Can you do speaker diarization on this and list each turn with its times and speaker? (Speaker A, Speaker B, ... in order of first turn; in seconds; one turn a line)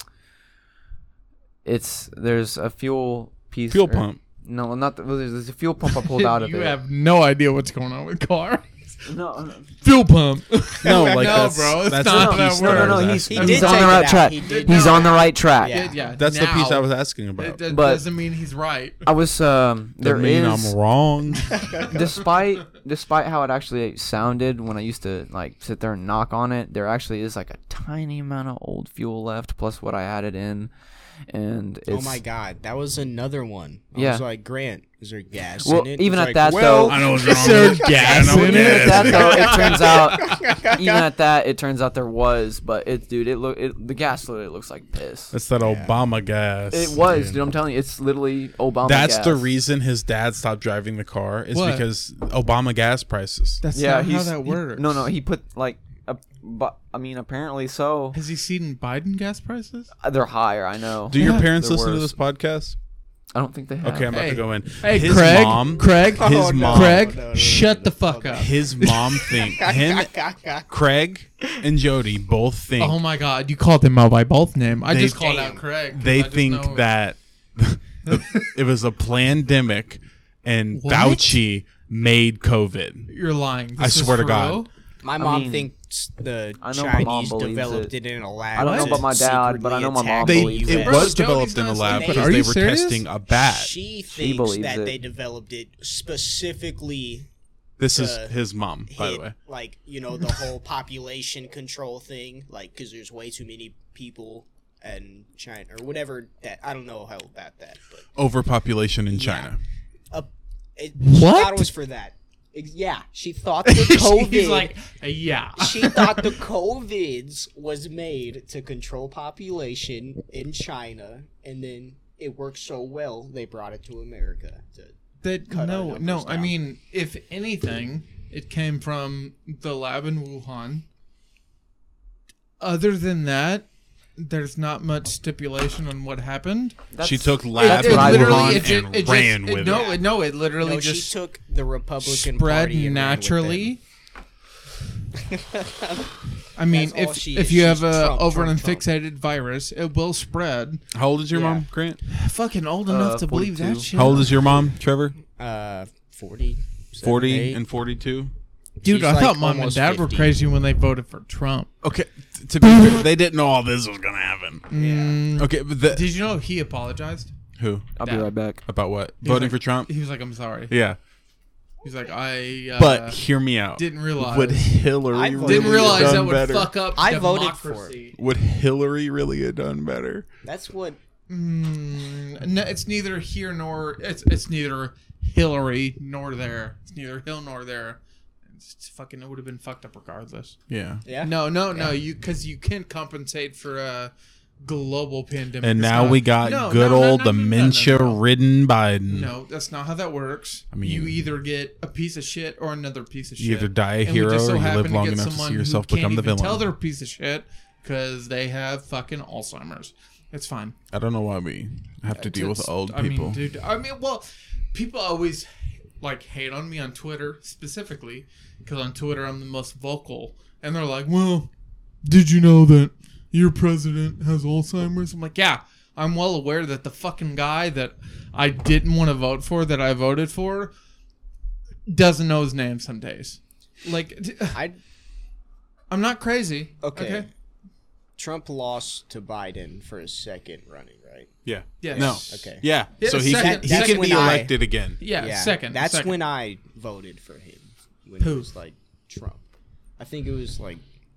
Speaker A: 1.6-6.8
Speaker B: 3.7-4.2
Speaker C: 6.0-9.1
Speaker A: 9.1-9.7
Speaker C: 9.8-19.0
Speaker B: 10.8-13.7
Speaker D: 10.8-11.5
Speaker A: 11.9-15.9
Speaker D: 13.3-16.1
Speaker B: 16.1-17.6
Speaker A: 17.7-18.1
Speaker A: 19.0-20.8
Speaker B: 20.0-21.6
Speaker A: 21.9-30.7
Speaker A: 31.3-32.2
Speaker D: 31.9-41.1
Speaker A: 34.0-34.2
Speaker A: 35.6-37.3
Speaker B: 36.5-39.5
Speaker C: 37.1-40.3
Speaker A: 37.8-45.3
Speaker B: 45.3-47.4
Speaker D: 45.6-46.0
Speaker A: 46.7-49.5
Speaker B: 48.9-53.6
Speaker C: 51.5-51.9
Speaker C: 53.6-55.1
Speaker A: 53.7-58.2
Speaker C: 58.1-59.9
Speaker A: 60.0-62.1
Speaker B: 61.1-62.8
Speaker C: 61.2-61.5
Speaker A: 63.3-64.2
Speaker B: 63.8-67.2
Speaker C: 64.1-69.4
Speaker D: 66.1-68.9
Speaker B: 68.3-70.1
Speaker D: 69.5-70.7
Speaker B: 70.7-73.0
Speaker C: 72.8-76.9
Speaker B: 74.9-75.2
Speaker D: 75.1-75.6
Speaker B: 75.9-83.1
Speaker C: 78.1-78.5
Speaker C: 80.7-81.4
Speaker C: 83.1-84.7
Speaker B: 83.8-84.7
Speaker D: 85.0-91.2
Speaker A: 85.2-85.7
Speaker A: 86.6-87.9
Speaker A: 88.5-91.0
Speaker C: 88.6-89.1
Speaker B: 90.2-93.8
Speaker C: 90.7-93.0
Speaker D: 91.9-92.5
Speaker D: 93.3-97.3
Speaker A: 94.1-95.0
Speaker B: 97.8-99.3
Speaker D: 97.9-98.3
Speaker D: 98.9-108.1
Speaker B: 108.2-109.6
Speaker D: 109.1-109.5
Speaker D: 110.1-114.7
Speaker C: 111.0-111.7
Speaker C: 113.7-116.4
Speaker D: 115.6-125.0
Speaker C: 125.2-130.8
Speaker D: 125.5-126.5
Speaker C: 132.6-133.7
Speaker C: 134.2-136.9
Speaker A: 136.9-138.7
Speaker B: 137.0-140.0
Speaker C: 137.5-141.2
Speaker D: 139.6-140.1
Speaker D: 140.6-143.8
Speaker C: 142.0-143.8
Speaker D: 145.2-146.2
Speaker C: 146.6-150.8
Speaker D: 146.7-148.8
Speaker B: 150.9-152.0
Speaker D: 151.3-151.7
Speaker C: 152.1-154.3
Speaker A: 152.9-153.9
Speaker B: 153.9-155.2
Speaker D: 154.3-154.7
Speaker D: 155.3-157.6
Speaker B: 157.0-158.3
Speaker D: 158.8-160.4
Speaker C: 158.8-161.7
Speaker B: 161.8-164.7
Speaker C: 164.7-167.3
Speaker D: 164.7-165.2
Speaker B: 165.3-166.1
Speaker B: 167.6-167.9
Speaker A: 168.0-168.6
Speaker C: 168.0-168.3
Speaker B: 168.7-169.9
Speaker C: 169.2-170.8
Speaker B: 170.7-171.0
Speaker C: 171.8-173.2
Speaker B: 172.8-176.8
Speaker C: 173.7-178.2
Speaker D: 175.1-176.3
Speaker D: 176.9-178.0
Speaker B: 178.2-180.3
Speaker D: 180.4-181.0
Speaker C: 181.3-190.6
Speaker B: 190.7-191.0
Speaker D: 191.1-192.0
Speaker C: 191.2-194.1
Speaker C: 194.6-198.2
Speaker B: 195.6-199.3
Speaker C: 199.1-210.8
Speaker B: 200.7-201.2
Speaker B: 203.4-206.7
Speaker B: 210.9-213.4
Speaker C: 212.2-221.5
Speaker C: 222.0-230.7
Speaker C: 231.9-234.6
Speaker D: 234.5-234.8
Speaker C: 235.9-237.3
Speaker D: 236.8-237.3
Speaker D: 238.2-241.3
Speaker B: 241.4-245.0
Speaker C: 241.8-246.2
Speaker D: 241.9-249.4
Speaker C: 248.2-248.5
Speaker D: 250.0-250.8